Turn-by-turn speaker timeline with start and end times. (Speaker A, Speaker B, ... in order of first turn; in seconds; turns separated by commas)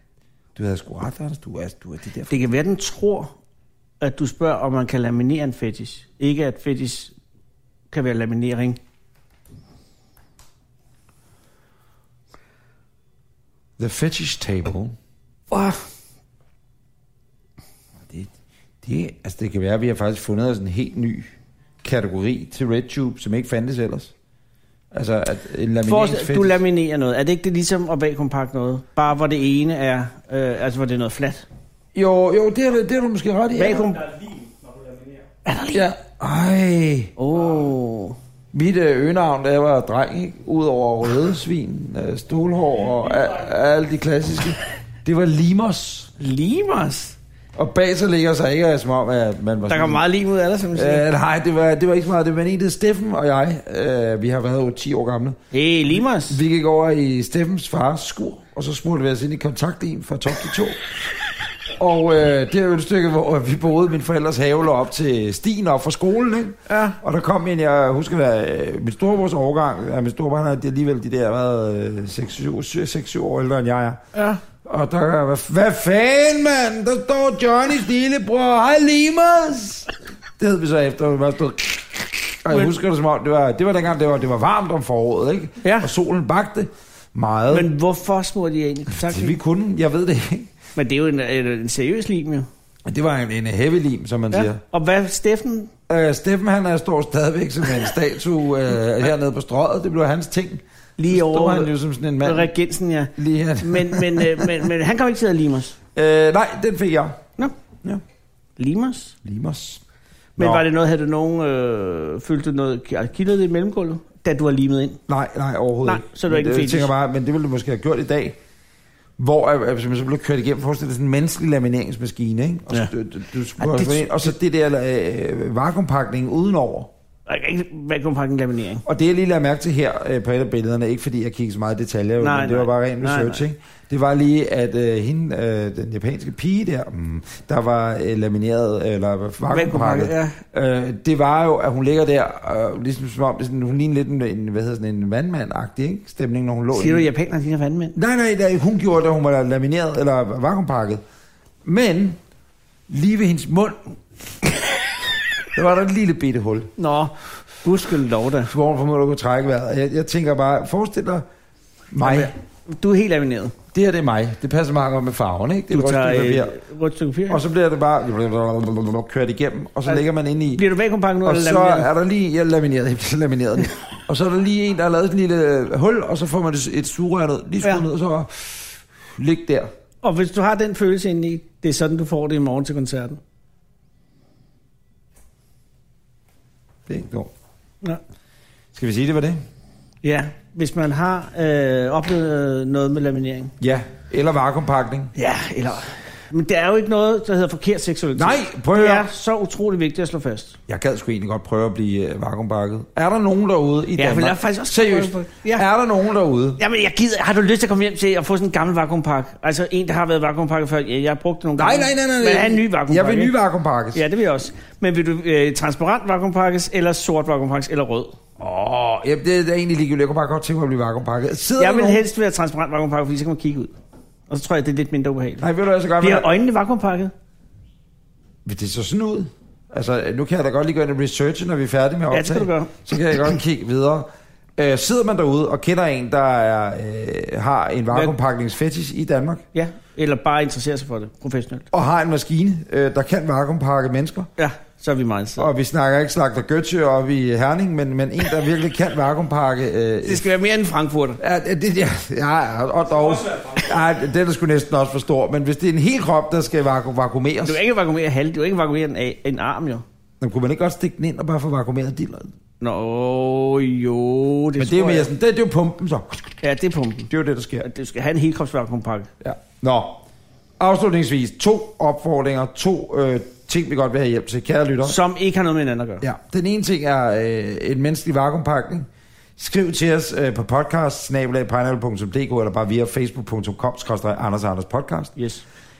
Speaker A: 0.6-2.4, Speaker B: 2.3-3.3, Speaker B: 4.0-7.1, Speaker B: 7.9-8.8, Speaker A: 13.8-14.9, Speaker B: 15.5-15.8, Speaker A: 18.0-18.3, Speaker A: 18.8-21.3, Speaker A: 21.8-24.1, Speaker A: 24.9-26.6, Speaker B: 25.9-31.4, Speaker A: 31.9-33.8, Speaker B: 33.5-34.0, Speaker C: 33.7-35.3, Speaker B: 35.4-35.9, Speaker A: 35.7-37.1, Speaker B: 37.2-38.2, Speaker A: 38.5-46.1, Speaker C: 43.0-43.3, Speaker B: 46.2-47.2, Speaker A: 47.5-50.0, Speaker B: 49.7-51.0, Speaker A: 50.7-55.4, Speaker B: 55.5-56.4, Speaker A: 55.9-60.8, Speaker A: 61.8-74.0, Speaker B: 66.7-67.0, Speaker B: 74.1-74.4, Speaker A: 74.6-87.7, Speaker B: 85.6-85.9, Speaker B: 87.5-89.4, Speaker A: 88.9-90.5, Speaker B: 90.8-92.5, Speaker A: 92.8-94.6, Speaker B: 94.3-95.7, Speaker A: 95.9-102.5, Speaker B: 101.0-105.8, Speaker A: 103.2-104.7, Speaker A: 105.9-107.2, Speaker B: 108.6-109.2, Speaker A: 109.2-109.8, Speaker A: 110.4-110.7, Speaker B: 110.4-115.0, Speaker A: 115.1-118.4, Speaker B: 115.8-116.9, Speaker A: 119.2-126.9, Speaker B: 123.6-124.3, Speaker B: 127.3-128.8, Speaker A: 128.8-147.1, Speaker B: 132.2-133.4, Speaker B: 139.5-140.4, Speaker B: 146.7-147.9, Speaker A: 147.9-151.0, Speaker A: 151.6-152.2, Speaker A: 152.9-153.9, Speaker A: 155.5-156.7, Speaker B: 156.8-158.5, Speaker A: 158.5-161.2, Speaker A: 161.9-162.3, Speaker B: 162.0-163.5, Speaker A: 163.7-166.5, Speaker B: 165.7-167.4, Speaker A: 167.3-170.6, Speaker B: 170.5-171.9, Speaker A: 171.2-179.7, Speaker B: 180.0-183.2, Speaker A: 186.9-187.3, Speaker A: 188.7-189.4, Speaker B: 190.0-193.5, Speaker A: 193.6-195.1, Speaker B: 195.2-200.6, Speaker A: 198.1-199.1, Speaker A: 200.7-206.6, Speaker B: 203.9-205.7, Speaker B: 206.6-213.3, Speaker A: 211.6-214.0, Speaker B: 213.9-218.2, Speaker A: 218.4-222.0, Speaker B: 221.6-223.7, Speaker B: 224.3-225.5, Speaker A: 225.4-226.3, Speaker B: 226.0-227.1, Speaker A: 228.4-239.4, Speaker B: 232.1-232.7, Speaker B: 239.5-241.7, Speaker A: 241.7-244.3, Speaker B: 244.4-245.5, Speaker A: 245.4-250.2, Speaker B: 250.0-251.2, Speaker A: 251.2-257.6, Speaker B: 257.4-259.8, Speaker A: 260.2-262.3, Speaker B: 262.6-265.1, Speaker A: 264.6-266.4, Speaker B: 266.4-267.1, Speaker A: 267.1-267.6, Speaker B: 267.6-269.1, Speaker A: 269.2-270.0, Speaker A: 270.6-275.0, Speaker B: 274.8-276.0, Speaker A: 276.0-285.1, Speaker B: 285.2-285.4